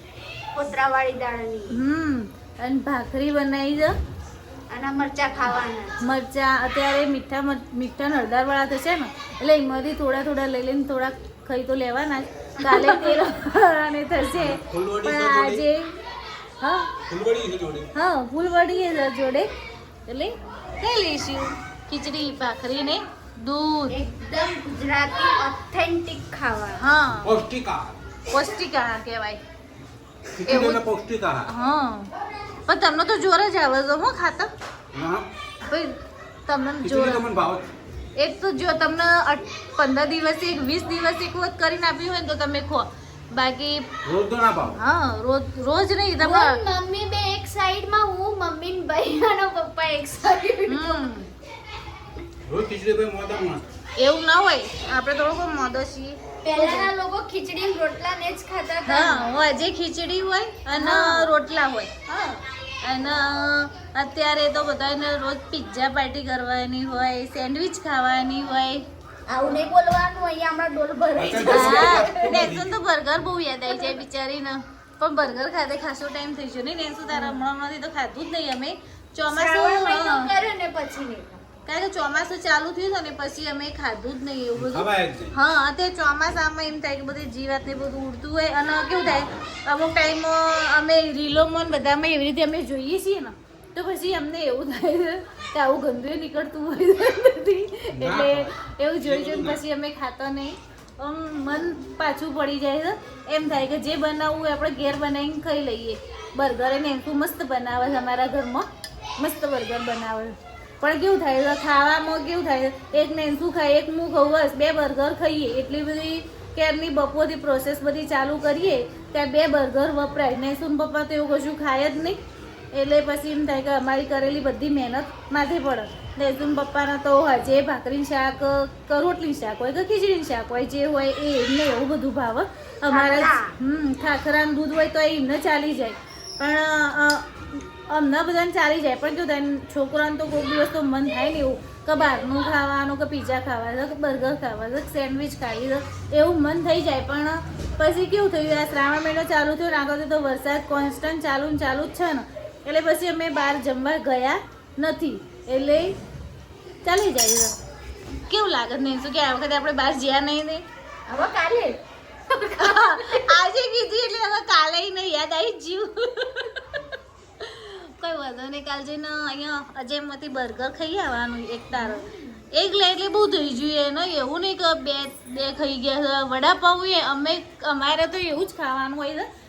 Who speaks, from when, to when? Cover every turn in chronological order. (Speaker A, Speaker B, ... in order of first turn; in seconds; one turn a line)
Speaker A: 0.6-1.8
Speaker B: 1.7-4.0
Speaker A: 4.7-6.0
Speaker B: 6.0-15.9
Speaker A: 12.7-13.2
Speaker C: 14.3-15.7
Speaker B: 16.6-16.9
Speaker C: 17.1-17.9
Speaker B: 17.9-19.5
Speaker B: 20.1-24.0
Speaker A: 23.9-26.8
Speaker B: 26.8-27.4
Speaker C: 27.2-28.0
Speaker B: 28.3-29.4
Speaker C: 30.4-31.5
Speaker B: 30.5-30.8
Speaker B: 31.5-32.1
Speaker B: 32.7-34.5
Speaker C: 34.9-35.3
Speaker B: 35.6-37.2
Speaker C: 36.8-37.7
Speaker B: 38.2-43.9
Speaker C: 44.0-44.8
Speaker B: 44.7-46.6
Speaker A: 46.2-51.1
Speaker B: 50.7-51.3
Speaker C: 52.5-53.7
Speaker B: 54.0-56.9
Speaker A: 56.4-59.4
Speaker B: 58.8-61.9
Speaker A: 60.7-61.3
Speaker A: 62.1-62.4
Speaker B: 62.8-68.8
Speaker A: 69.3-72.3
Speaker C: 71.2-72.7
Speaker B: 71.3-80.3
Speaker A: 77.1-77.4
Speaker A: 79.3-81.4
Speaker B: 81.7-122.2
Speaker C: 84.6-85.4
Speaker C: 98.0-99.6
Speaker B: 122.7-156.0
Speaker A: 132.9-133.6
Speaker B: 156.8-157.6
Speaker B: 158.3-160.7
Speaker A: 161.1-163.3
Speaker B: 162.6-166.7
Speaker B: 167.4-179.3
Speaker A: 171.7-172.0